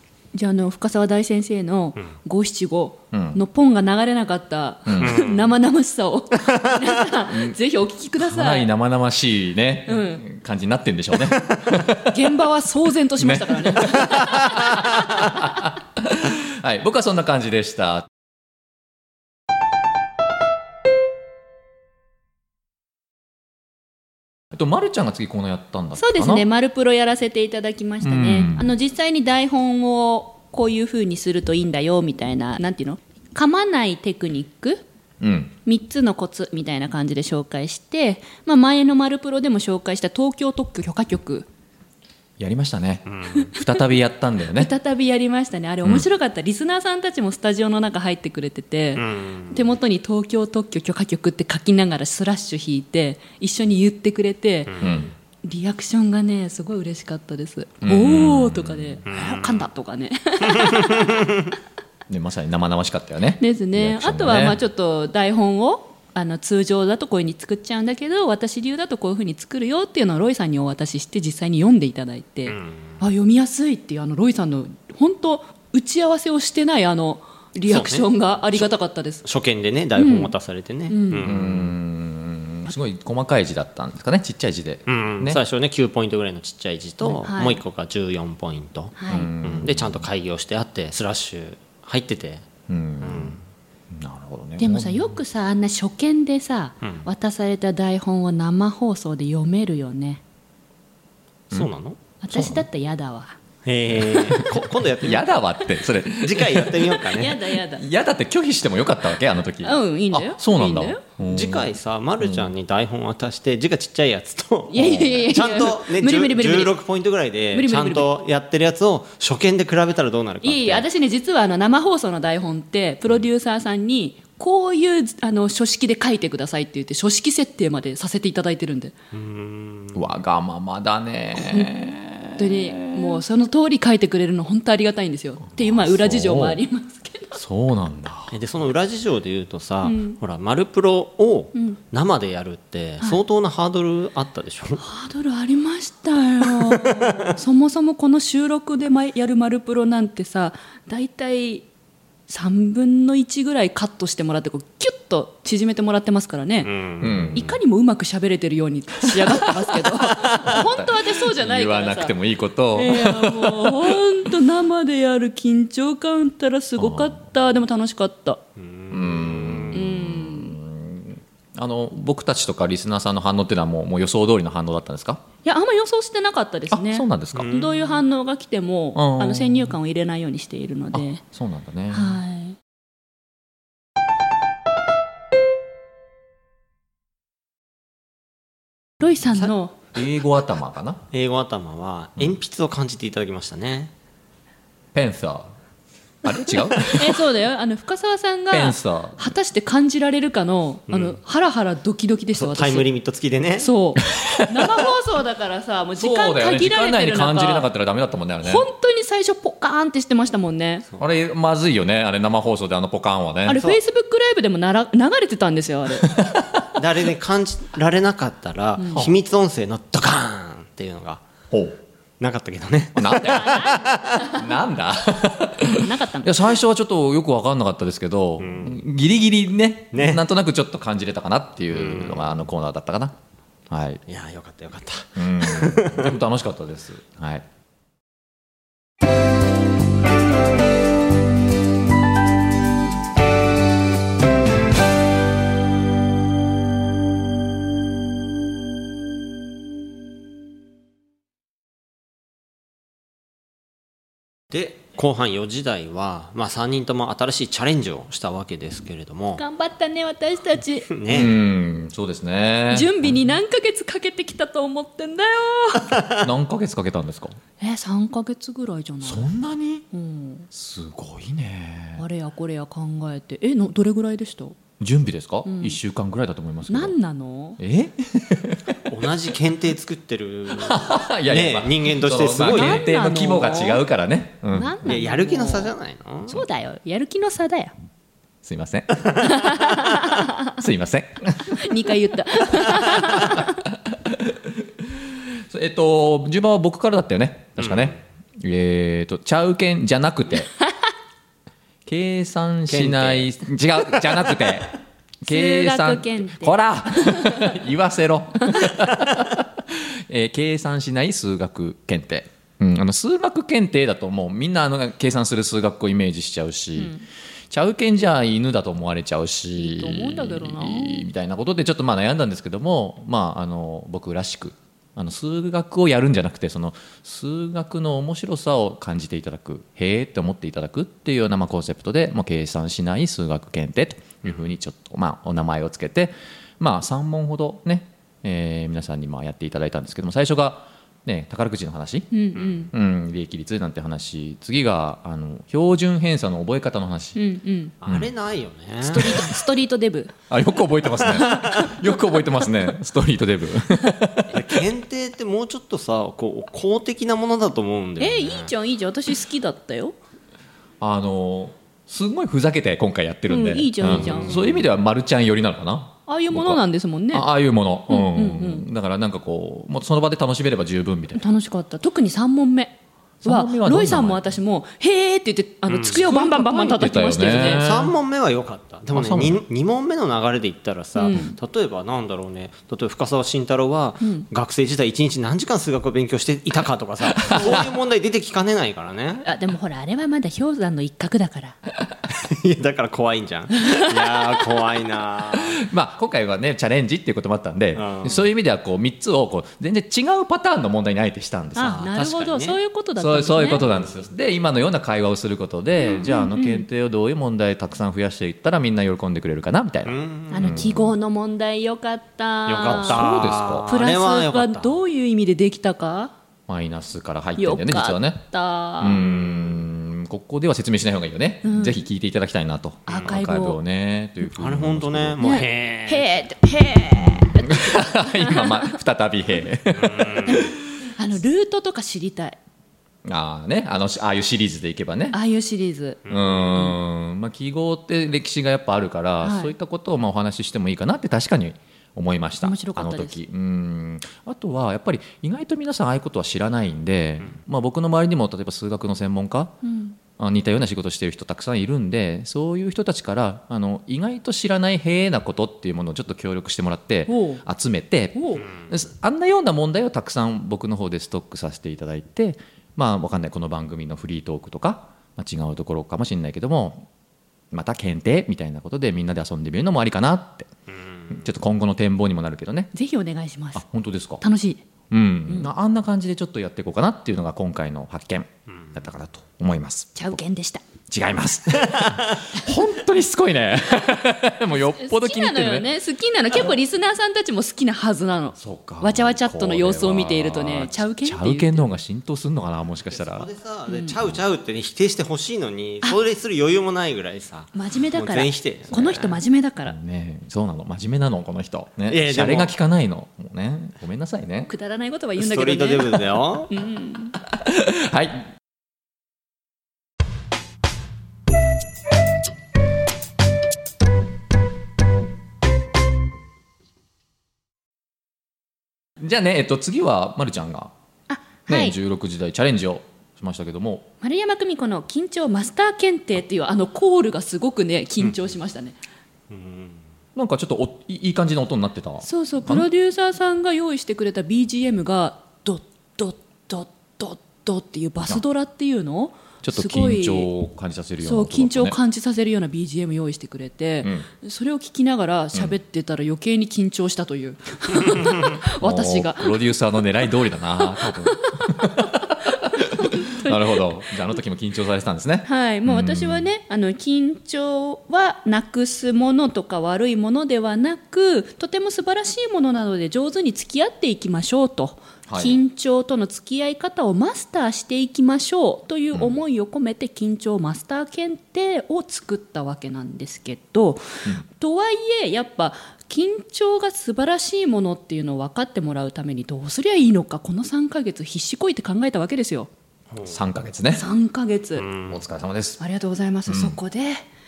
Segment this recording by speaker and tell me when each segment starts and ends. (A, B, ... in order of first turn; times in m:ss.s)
0:00.3-0:08.7 A
0:03.1-0:03.4 B
0:04.8-0:05.2 B
0:05.0-0:05.5 C
0:06.4-0:06.9 C
0:07.3-0:07.6 B
0:08.2-0:12.3 B
0:09.9-0:10.2 A
0:12.0-0:15.6 A
0:13.2-0:18.1 B
0:24.5-0:26.4 B
0:26.0-0:34.8 A
0:28.0-0:28.7 B
0:35.2-0:35.5 B
0:35.6-0:41.5 A
0:42.4-0:44.7 B
0:43.1-0:43.5 C
0:44.5-0:54.8 A
0:49.0-0:49.7 C
0:54.7-0:55.0 C
0:54.8-0:55.1 B
0:55.4-1:01.3 A
0:57.8-0:59.0 B
0:59.1-0:59.6 C
1:00.5-1:01.3 C
1:02.1-1:04.6 B
1:03.4-1:19.2 A
1:12.5-1:13.0 C
1:17.6-1:18.7 C
1:19.2-1:21.7 C
1:20.0-1:20.3 A
1:20.9-1:21.3 A
1:21.2-1:25.4 B
1:24.9-1:32.5 C
1:27.0-1:27.6 A
1:29.0-1:29.3 A
1:29.1-1:30.1 B
1:32.7-1:33.4 B
1:33.0-1:33.4 C
1:33.9-1:35.1 B
1:34.6-1:40.2 A
1:41.5-1:42.0 C
1:42.2-1:43.4 A
1:42.3-1:42.6 B
1:43.6-1:45.2 C
1:43.9-1:52.5 B
1:46.1-1:47.5 C
1:47.1-1:47.8 A
1:49.6-1:51.0 A
1:51.2-2:00.8 C
1:54.7-1:56.7 A
1:57.5-1:58.1 A
2:00.4-2:08.9 A
2:09.1-2:10.0 C
2:09.9-2:13.2 B
2:11.3-2:11.7 A
2:12.4-2:17.4 A
2:15.5-2:16.6 B
2:17.3-2:18.3 B
2:18.3-2:24.8 C
2:19.8-2:20.2 A
2:24.8-2:31.7 A
2:26.8-2:27.2 C
2:32.3-2:36.7 A
2:36.6-2:37.5 C
2:37.0-2:37.5 B
2:37.3-2:42.1 A
2:40.2-2:44.3 B
2:42.7-2:48.4 A
2:46.8-2:47.2 B
2:48.6-2:49.8 C
2:48.9-2:55.2 B
2:49.7-2:50.6 A
2:55.4-3:01.2 A
2:56.7-2:57.5 B
2:57.3-2:58.0 C
2:58.9-2:59.8 B
3:00.9-3:02.2 B
3:01.9-3:02.6 A
3:09.0-3:09.7 A
3:09.9-3:11.0 B
3:11.1-3:13.9 C
3:14.9-3:15.5 B
3:16.2-3:17.2 B
3:16.3-3:22.9 A
3:18.5-3:19.3 B
3:20.9-3:21.2 C
3:22.3-3:23.7 C
3:23.6-3:27.7 A
3:24.1-3:24.7 B
3:26.0-3:28.7 B
3:28.4-3:30.8 A
3:31.0-3:33.6 B
3:33.4-3:36.2 A
3:36.0-3:36.5 B
3:36.7-3:41.2 C
3:38.8-3:39.0 A
3:41.5-3:41.8 B
3:42.2-3:44.3 C
3:42.9-3:53.1 B
3:43.2-3:44.4 A
3:45.8-3:46.5 A
3:48.4-3:48.8 C
3:49.9-3:50.2 C
3:51.7-3:52.4 C
3:53.7-3:54.0 B
3:54.1-3:56.1 C
3:55.2-3:57.4 B
4:14.5-4:19.4 C
4:19.4-4:20.9 A
4:20.9-4:21.3 C
4:21.1-4:23.2 B
4:22.7-4:26.0 A
4:26.2-4:27.4 B
4:27.6-4:29.3 A
4:29.0-4:29.8 B
4:29.9-4:30.5 A
4:30.5-4:32.0 B
4:32.0-4:34.6 A
4:34.8-4:37.0 B
4:35.4-4:35.8 A
4:36.7-4:37.6 A
4:37.6-4:38.8 B
4:38.9-4:42.9 C
4:40.5-4:44.9 B
4:42.4-4:43.8 A
4:44.5-4:45.7 A
4:44.8-4:46.4 C
4:46.3-4:47.7 A
4:48.4-4:49.6 B
4:49.2-4:50.4 A
4:50.5-4:51.7 B
4:51.5-4:53.6 A
4:52.6-5:00.5 B
4:57.6-4:58.0 C
5:01.8-5:16.9 B
5:02.7-5:03.3 C
5:03.9-5:04.4 C
5:05.2-5:07.5 A
5:16.8-5:17.0 A
5:17.5-5:42.1 B
5:19.6-5:21.0 A
5:42.1-5:42.7 A
5:42.7-5:47.2 B
5:47.2-5:47.7 A
5:47.8-5:49.2 C
5:47.8-5:48.1 B
5:48.8-5:50.1 A
5:49.0-5:49.3 B
5:50.3-5:54.6 B
5:51.1-5:52.0 A
5:54.3-5:58.5 C
5:58.0-6:00.0 A
6:00.8-6:06.6 B
6:03.3-6:04.4 A
6:03.8-6:04.6 C
6:06.1-6:07.3 A
6:07.1-6:11.2 B
6:07.9-6:08.6 A
6:11.1-6:17.6 A
6:13.2-6:14.4 B
6:15.7-6:16.0 C
6:15.9-6:17.9 B
6:17.4-6:29.3 C
6:18.9-6:19.4 B
6:21.0-6:21.4 A
6:24.0-6:24.2 A
6:27.2-6:27.7 B
6:29.2-6:31.6 A
6:32.1-6:35.6 C
6:33.6-6:34.5 A
6:35.3-6:41.9 B
6:37.8-6:38.3 C
6:41.5-6:43.8 A
6:41.8-6:42.6 C
6:43.0-6:50.9 B
6:45.8-6:46.6 A
6:49.8-6:50.5 C
6:50.3-6:53.1 A
6:52.5-6:54.8 C
6:52.8-6:53.7 B
6:53.6-6:56.1 A
6:56.5-6:58.2 B
6:57.4-6:59.0 A
6:58.8-7:05.2 B
6:58.9-6:59.6 C
7:01.4-7:01.8 A
7:02.9-7:03.1 C
7:02.9-7:03.6 A
7:04.3-7:06.1 C
7:05.2-7:08.8 A
7:07.3-7:10.4 B
7:09.8-7:10.4 C
7:10.2-7:12.4 A
7:13.0-7:15.2 B
7:15.1-7:16.8 A
7:16.0-7:16.6 C
7:16.1-7:29.5 B
7:19.2-7:19.5 A
7:22.4-7:23.2 A
7:29.6-7:30.0 A
7:30.2-7:46.9 B
7:37.1-7:37.4 A
7:38.1-7:38.4 A
7:47.5-7:50.5 B
7:50.7-7:51.2 C
7:51.1-7:52.7 B
7:52.7-7:53.6 A
7:53.6-7:54.2 B
7:54.2-7:54.6 A
7:54.9-8:00.2 B
8:00.0-8:00.6 A
8:00.9-8:05.7 B
8:04.5-8:11.7 A
8:08.4-8:13.3 B
8:12.9-8:19.2 C
8:13.7-8:13.9 A
8:17.5-8:19.8 A
8:19.6-8:24.5 B
8:21.9-8:22.5 C
8:24.5-8:27.2 A
8:25.2-8:26.5 C
8:27.2-8:28.3 B
8:39.0-8:40.7 B
8:41.1-8:41.8 A
8:41.5-8:43.9 B
8:44.0-8:48.8 A
8:49.3-8:49.8 C
8:50.1-8:52.7 B
8:52.0-9:00.3 A
8:59.4-9:01.8 B
9:01.0-9:09.4 A
9:08.6-9:16.3 B
9:10.6-9:13.6 A
9:15.2-9:42.5 A
9:25.1-9:25.4 B
9:42.9-9:43.2 C
9:43.0-9:43.8 B
9:43.7-9:44.7 A
9:44.6-9:45.0 C
9:44.9-9:45.6 B
9:45.6-9:47.0 A
9:46.3-9:46.6 B